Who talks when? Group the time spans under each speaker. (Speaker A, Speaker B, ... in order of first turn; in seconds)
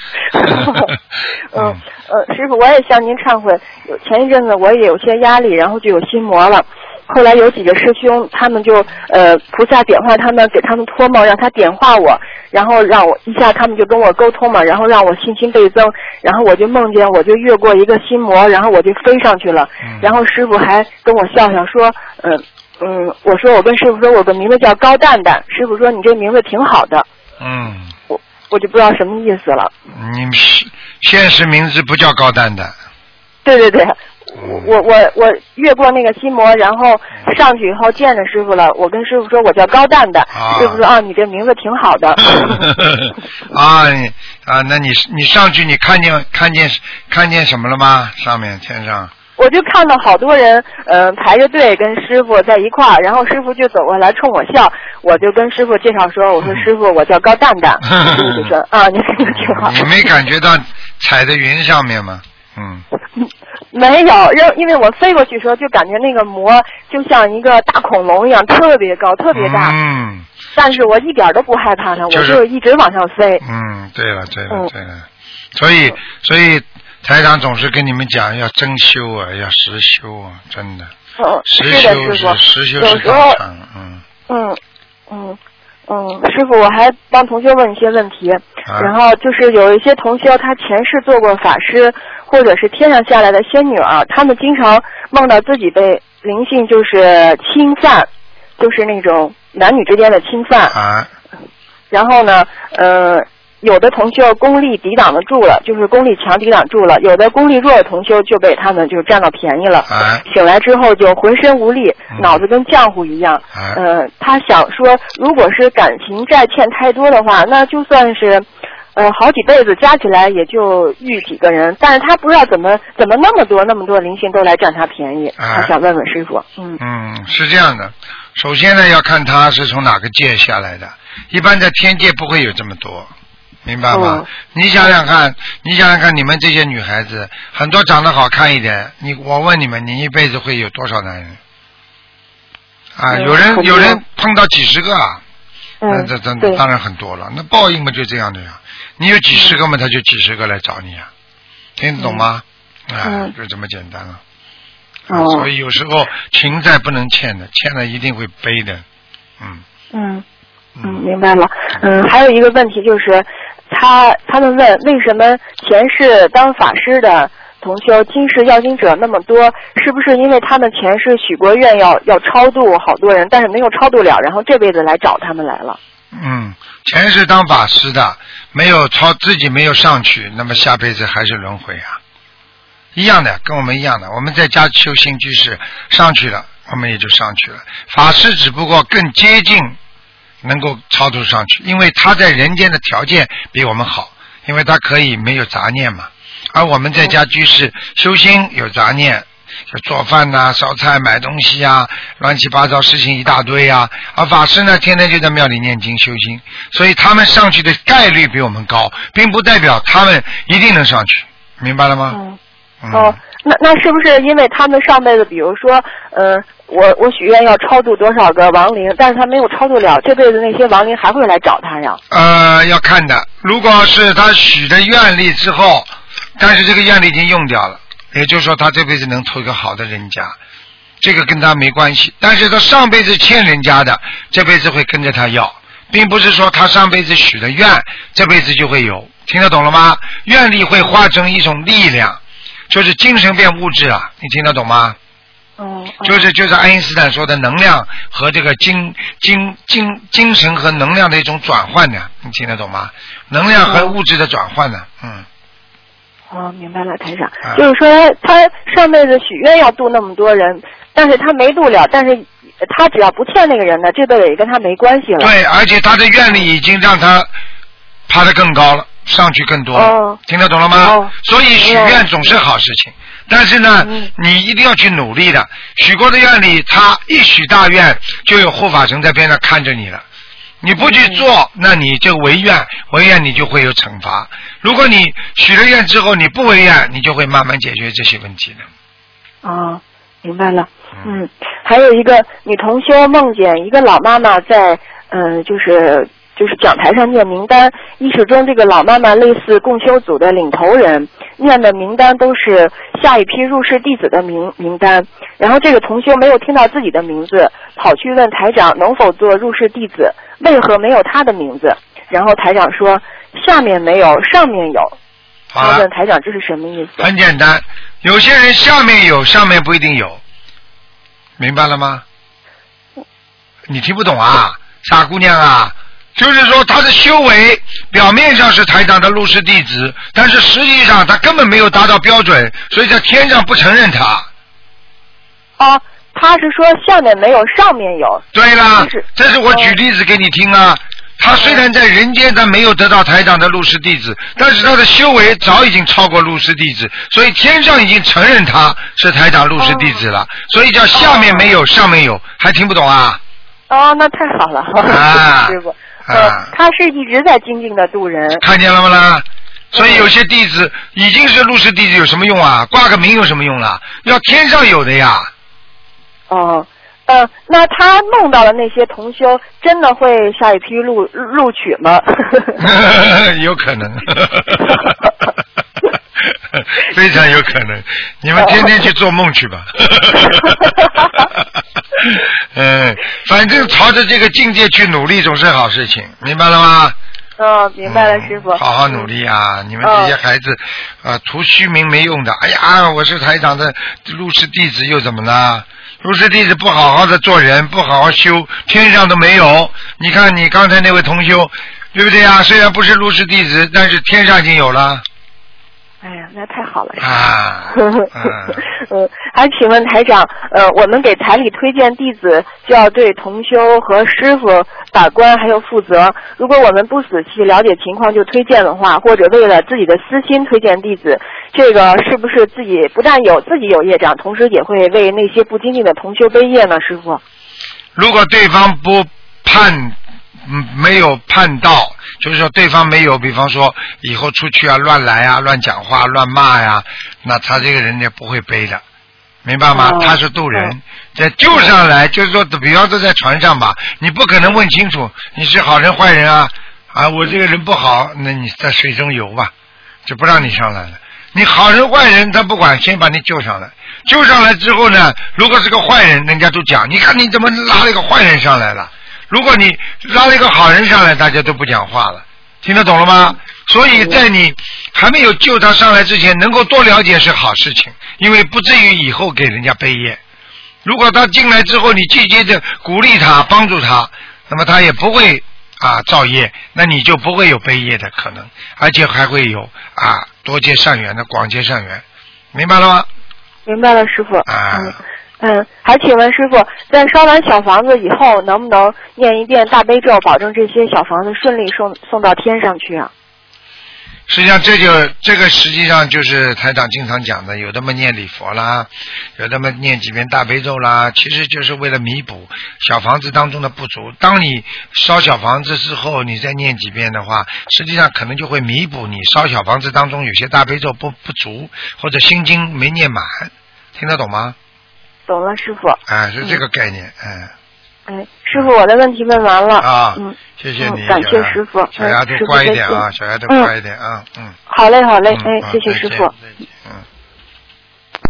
Speaker A: 0.4-0.9, 1.5-27.1, 28.1-29.7, 33.4-42.7, 49.4-59.9, 63.1-69.7, 70.5-73.4, 81.2-83.4, 84.3-100.8, 101.9-126.8, 133.9-134.3, 143.1-144.0, 145.8-146.6, 152.0-152.2, 153.0-153.3, 155.1-155.5, 159.9-160.2, 160.8-175.8, 212.1-212.4, 212.9-222.0, 245.6-246.3, 253.6-253.9, 256.3-265.3, 269.7-270.2, 270.7-272.1, 273.8-274.1, 280.8-281.2, 289.4-314.9, 315.6-317.1, 335.6-338.2, 338.8-339.8, 341.4-341.6, 349.6-350.0, 350.9-351.5, 353.7-358.4, 359.7-360.1, 366.3-372.6, 378.4-378.7, 387.4-389.1, 389.8-390.1, 406.0-427.2, 439.7-440.7, 483.6-493.1, 515.3-516.6, 518.1-523.7, 524.7-526.3
Speaker B: 0.4-0.8, 1.5-1.8, 19.8-20.1, 27.4-27.9, 29.9-32.7, 34.4-34.7, 40.3-40.8, 42.3-49.1, 57.9-58.5, 59.2-62.8, 69.3-70.3, 72.1-72.4, 73.4-80.9, 81.5-84.0, 88.7-88.9, 100.7-101.1, 109.9-110.2, 112.1-112.4, 113.5-113.8, 125.4-125.7, 126.8-133.1, 133.6-141.4, 142.9-145.2, 145.9-151.1, 151.8-154.2, 155.1-158.8, 160.8-161.0, 176.1-182.0, 182.9-189.8, 190.4-212.2, 212.8-213.2, 222.1-230.3, 231.0-242.2, 242.7-245.0, 246.0-255.2, 265.2-267.3, 268.1-280.0, 280.6-288.6, 315.5-315.9, 317.0-320.2, 321.4-322.0, 323.7-334.3, 338.3-353.2, 354.9-356.5, 358.4-365.3, 372.6-374.9, 376.2-381.4, 382.0-386.9, 387.8-405.0, 407.0-408.6, 427.9-438.8, 439.4-449.5, 450.1-470.2, 470.8-482.0, 482.5-483.1, 484.4-485.0, 494.3-514.5, 516.1-517.5, 519.8-524.5, 525.3-527.0